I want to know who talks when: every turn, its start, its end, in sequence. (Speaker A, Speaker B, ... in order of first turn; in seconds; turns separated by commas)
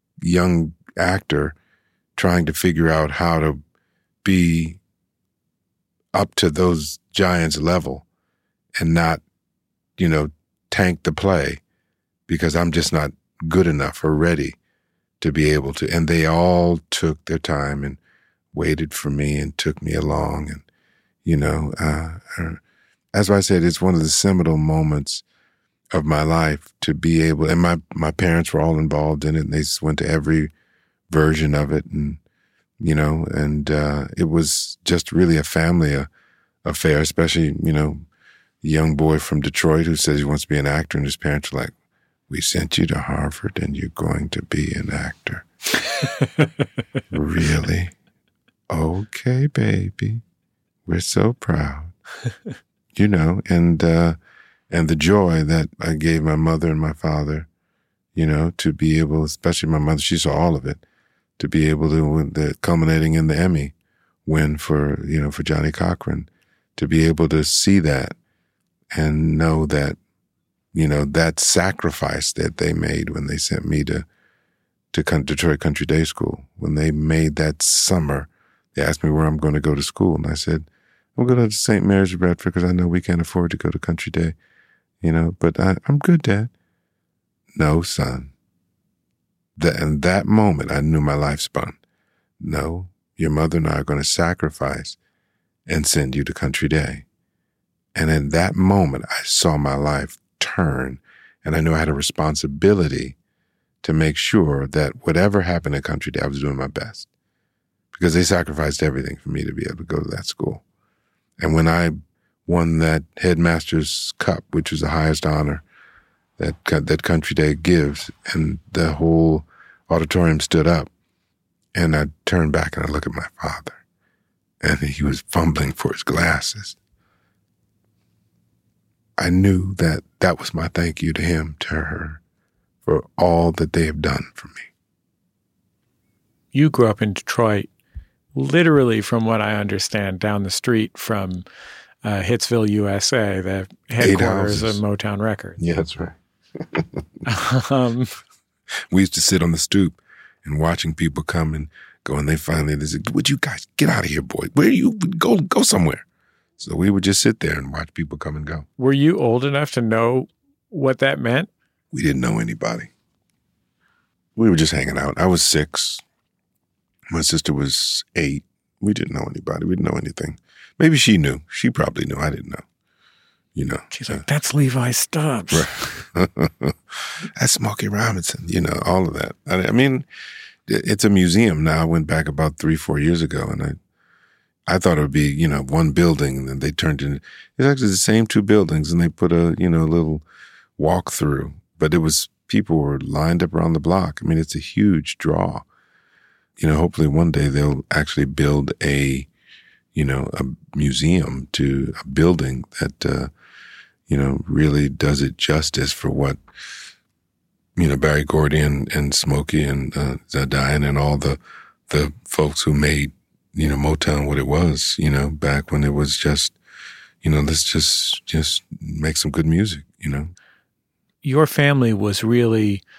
Speaker A: 0.2-1.6, Speaker A: 2.1-3.6, Speaker A: 4.2-4.8, Speaker A: 6.1-8.1, Speaker A: 8.8-9.2, Speaker A: 10.0-11.6, Speaker A: 12.3-14.6, Speaker A: 15.2-18.0, Speaker A: 18.5-20.6, Speaker A: 21.2-22.6, Speaker A: 23.1-25.2, Speaker A: 25.9-30.5, Speaker A: 31.1-32.2, Speaker A: 32.8-36.1, Speaker A: 36.6-38.0, Speaker A: 38.6-41.7, Speaker A: 42.3-45.5, Speaker B: 46.0-46.5, Speaker A: 47.1-47.9, Speaker A: 48.7-50.2, Speaker A: 50.9-51.9, Speaker A: 52.9-54.2, Speaker A: 54.7-57.5, Speaker A: 58.1-60.8, Speaker A: 61.4-63.7, Speaker A: 64.2-68.1, Speaker A: 68.9-70.0, Speaker A: 70.7-74.1, Speaker A: 74.9-84.3, Speaker A: 85.0-86.5, Speaker A: 87.5-88.3, Speaker A: 89.5-91.8, Speaker A: 92.4-95.0, Speaker A: 95.7-97.0, Speaker A: 97.9-103.2, Speaker A: 103.8-107.1, Speaker A: 107.9-110.6, Speaker A: 111.4-115.6, Speaker A: 116.4-120.9, Speaker A: 121.7-123.8, Speaker A: 124.6-126.8, Speaker A: 129.2-132.2, Speaker A: 132.8-134.7, Speaker B: 136.5-137.7, Speaker B: 138.3-141.4, Speaker B: 142.0-145.6, Speaker A: 144.0-144.8, Speaker A: 145.6-147.0, Speaker B: 147.2-148.2, Speaker A: 148.9-156.0, Speaker A: 156.6-158.7, Speaker B: 158.8-161.5, Speaker A: 161.9-162.9, Speaker A: 164.3-166.0, Speaker A: 167.1-172.6, Speaker A: 173.5-174.2, Speaker B: 173.9-176.1, Speaker A: 175.5-176.8, Speaker A: 177.3-180.1, Speaker A: 180.7-183.8, Speaker A: 184.7-190.2, Speaker A: 190.8-195.7, Speaker A: 196.6-199.3, Speaker A: 199.9-203.3, Speaker A: 204.1-206.4, Speaker A: 207.8-216.6, Speaker A: 217.2-220.3, Speaker B: 221.2-222.8